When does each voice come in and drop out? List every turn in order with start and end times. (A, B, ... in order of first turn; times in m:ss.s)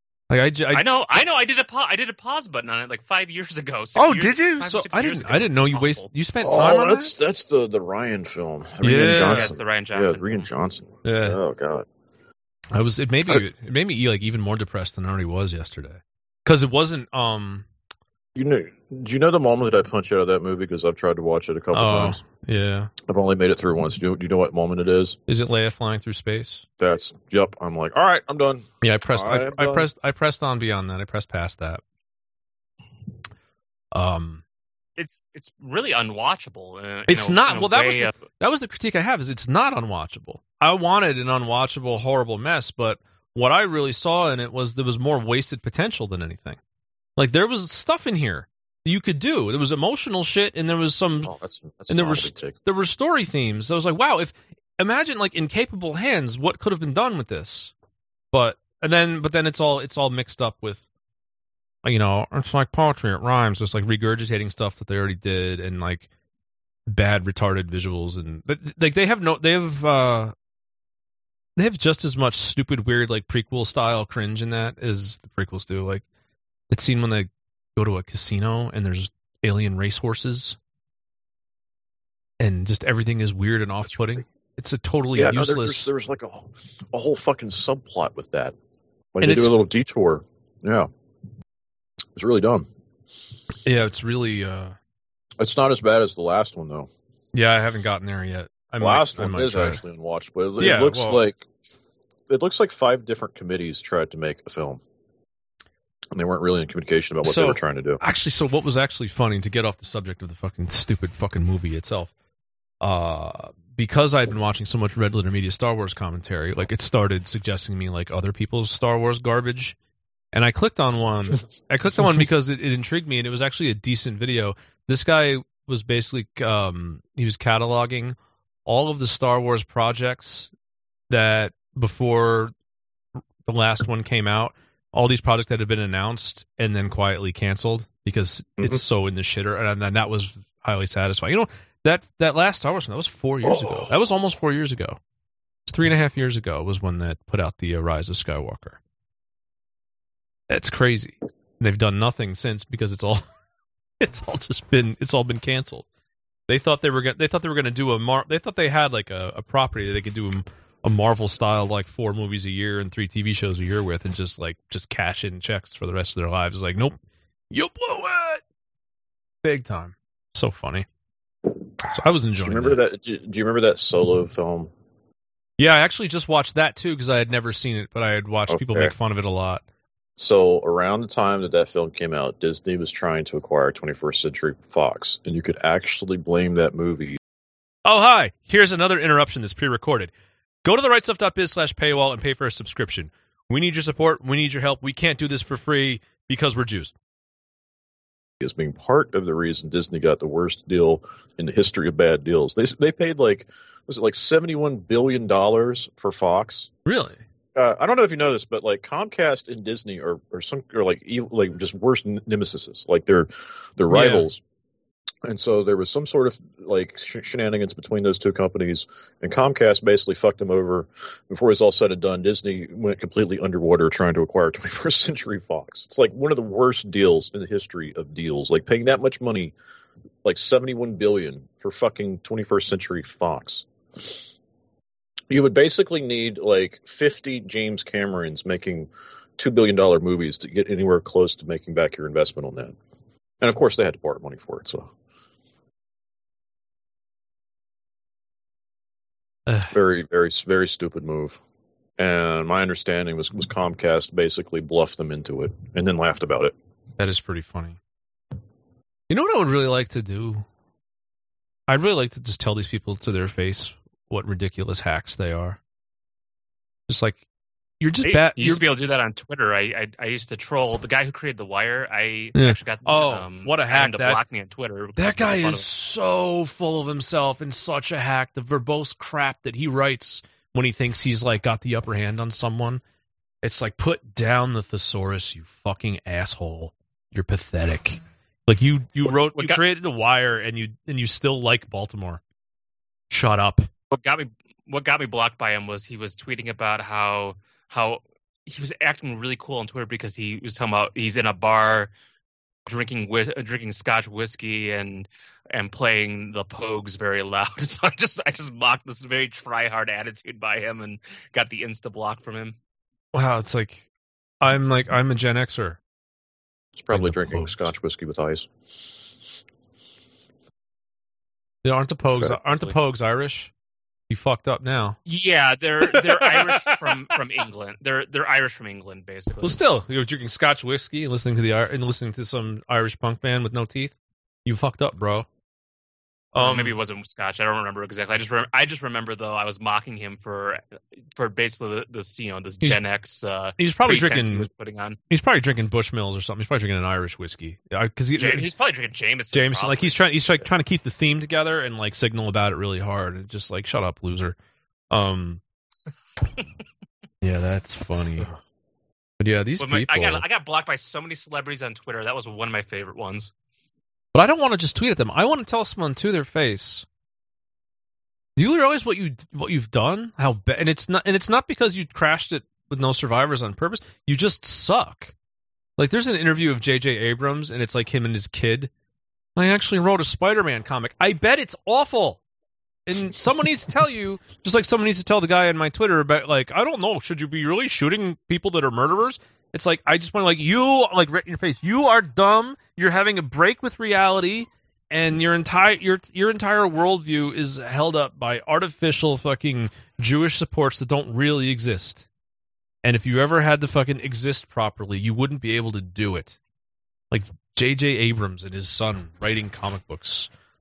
0:00.3-0:00.8 A
0:00.7-0:06.1 B
0:04.0-0:07.1 A
0:06.4-0:11.9 C
0:08.8-0:09.5 A
0:09.3-0:10.5 B
0:11.0-0:11.4 A
0:12.7-0:17.7 A
0:18.4-0:22.2 C
0:21.7-0:22.9 A
0:23.1-0:25.2 C
0:25.3-0:26.6 A
0:26.8-0:29.9 C
0:28.8-0:31.8 A
0:33.9-0:34.4 A
0:35.0-0:38.2 B
0:37.1-0:46.6 A
0:47.2-0:51.3 A
0:51.2-0:52.6 C
0:51.9-0:57.7 A
0:58.3-1:00.8 A
1:01.8-1:06.1 A
1:06.9-1:10.3 A
1:11.6-1:16.0 A
1:16.7-1:20.6 A
1:22.4-1:25.9 A
1:25.2-1:28.6 C
1:29.1-1:30.9 C
1:29.2-1:29.6 A
1:32.2-1:32.7 C
1:33.6-1:34.8 A
1:35.4-1:36.9 C
1:37.3-1:39.8 A
1:38.8-1:41.5 C
1:40.6-1:41.2 A
1:42.3-1:44.8 C
1:46.1-1:48.0 C
1:47.2-1:52.1 A
1:52.8-1:59.8 A
2:00.3-2:10.5 A
2:11.1-2:12.5 A
2:13.4-2:25.0 A
2:23.4-2:23.9 C
2:25.7-2:28.8 A
2:30.5-2:33.2 A
2:34.0-2:35.9 A
2:36.5-2:47.0 A
2:47.5-2:48.4 A
2:49.4-2:50.9 A
2:51.8-2:52.8 A
2:52.4-2:54.7 C
2:55.6-2:59.6 A
2:58.5-2:58.9 C
3:00.2-3:07.2 C
3:07.8-3:10.1 A
3:10.6-3:16.9 A
3:18.4-3:26.7 C
3:26.8-3:27.2 A
3:27.6-3:34.4 C
3:33.9-3:34.3 A
3:35.2-3:49.6 C
3:50.2-3:54.2 C
3:55.3-4:02.8 C
4:03.4-4:04.9 C
4:09.5-4:09.7 A
4:09.7-4:11.4 C
4:12.0-4:16.6 C
4:17.0-4:17.8 A
4:19.1-4:20.5 A
4:21.7-4:25.6 A
4:26.9-4:27.2 A
4:27.8-4:28.6 A
4:28.0-4:35.7 B
4:32.4-4:34.2 A
4:35.0-4:42.8 A
4:43.4-4:52.2 A
4:49.4-4:49.6 B
4:53.1-4:53.7 A
4:53.9-5:01.9 B
5:02.7-5:12.6 B
5:13.1-5:13.8 A
5:14.4-5:15.8 A
5:16.8-5:18.5 C
5:16.9-5:17.7 A
5:21.6-5:23.5 A
5:24.1-5:25.0 A
5:25.1-5:29.6 B
5:25.8-5:27.1 A
5:29.4-5:35.3 A
5:36.3-5:36.8 A
5:36.4-5:40.6 B
5:41.2-5:45.0 B
5:43.6-5:44.5 A
5:45.1-5:48.5 A
5:48.2-5:50.0 B
5:49.3-5:54.4 A
5:54.9-5:55.4 A
5:57.2-5:58.3 A
5:59.2-6:00.2 A
5:59.6-6:03.3 B
6:04.1-6:06.9 A
6:08.4-6:15.1 A
6:15.8-6:18.7 A
6:19.4-6:22.2 A
6:22.9-6:42.0 A
6:42.8-6:46.4 A
6:47.1-6:50.3 A